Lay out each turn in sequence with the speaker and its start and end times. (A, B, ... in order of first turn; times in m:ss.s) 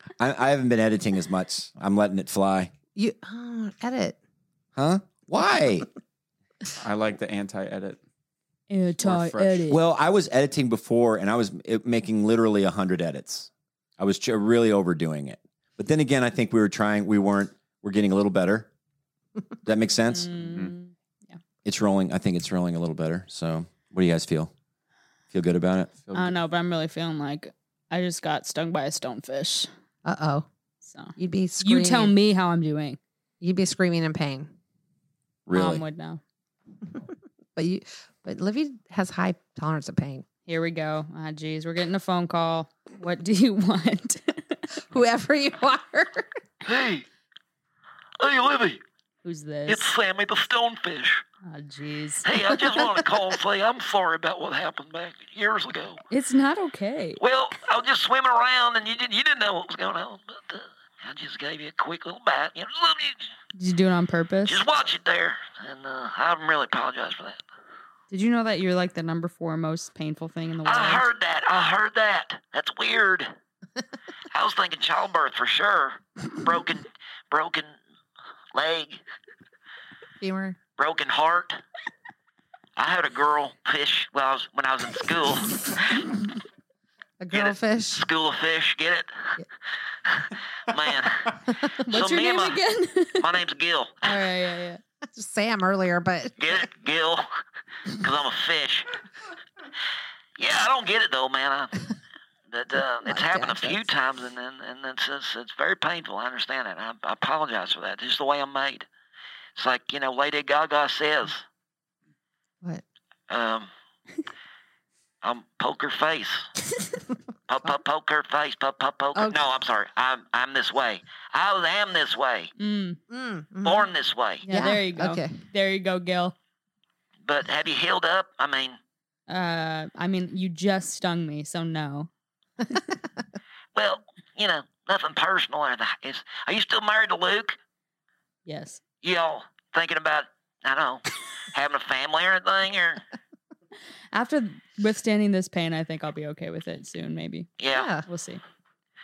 0:00.2-0:02.7 A
0:02.9-0:04.2 B
0:04.8-0:05.8 A
0:06.8-0:08.0 C
0:08.7-0:09.8 D
0:09.0-0:09.6 C
0:09.7-0:18.7 A
0:19.6-0:20.4 A
0:20.1-0:21.4 D
0:21.6-0:24.5 A
0:25.3-0:25.9 A
0:26.0-0:26.3 C
0:26.1-0:29.7 D
0:30.0-0:30.5 B
0:30.8-0:33.0 D
0:31.2-0:32.1 B
0:33.4-0:34.5 B
0:35.5-0:35.8 A
0:35.5-0:36.2 D
0:37.6-0:40.2 B
0:40.5-0:44.6 D
0:44.9-0:46.3 B
0:46.6-0:47.0 E
0:48.2-0:48.8 E
0:49.2-0:49.9 D
0:49.7-0:51.2 E
0:51.4-0:52.8 D
0:52.2-0:56.0 E
0:56.1-0:57.2 D
0:57.2-1:03.2 E
1:03.5-1:04.6 D
1:04.4-1:07.4 E
1:08.1-1:11.0 D
1:10.6-1:13.3 E
1:14.3-1:17.7 E
1:18.5-1:19.0 E
1:20.2-1:20.6 B
1:20.8-1:21.6 E
1:22.8-1:26.1 E
1:27.2-1:28.0 B
1:27.3-1:29.4 E
1:30.7-1:31.4 E
1:31.8-1:33.2 D
1:31.9-1:32.6 E
1:33.2-1:34.1 E
1:34.0-1:34.8 D
1:35.1-1:36.4 B
1:36.4-1:37.2 E
1:37.9-1:38.9 E
1:40.4-1:41.7 E
1:42.5-1:48.9 E
1:43.1-1:43.8 B
1:49.6-1:51.4 E
1:53.3-1:53.7 E
1:55.2-1:56.5 E
1:57.5-2:02.5 E
1:59.1-1:59.4 B
2:02.6-2:03.0 D
2:03.1-2:03.9 B
2:03.6-2:04.5 E
2:04.4-2:06.3 D
2:04.5-2:05.3 B
2:07.2-2:08.8 E
2:09.3-2:12.1 D
2:13.7-2:17.6 E
2:18.4-2:18.8 D
2:19.0-2:23.0 E
2:24.1-2:27.5 D
2:27.6-2:27.9 E
2:27.7-2:28.0 B
2:28.1-2:28.4 D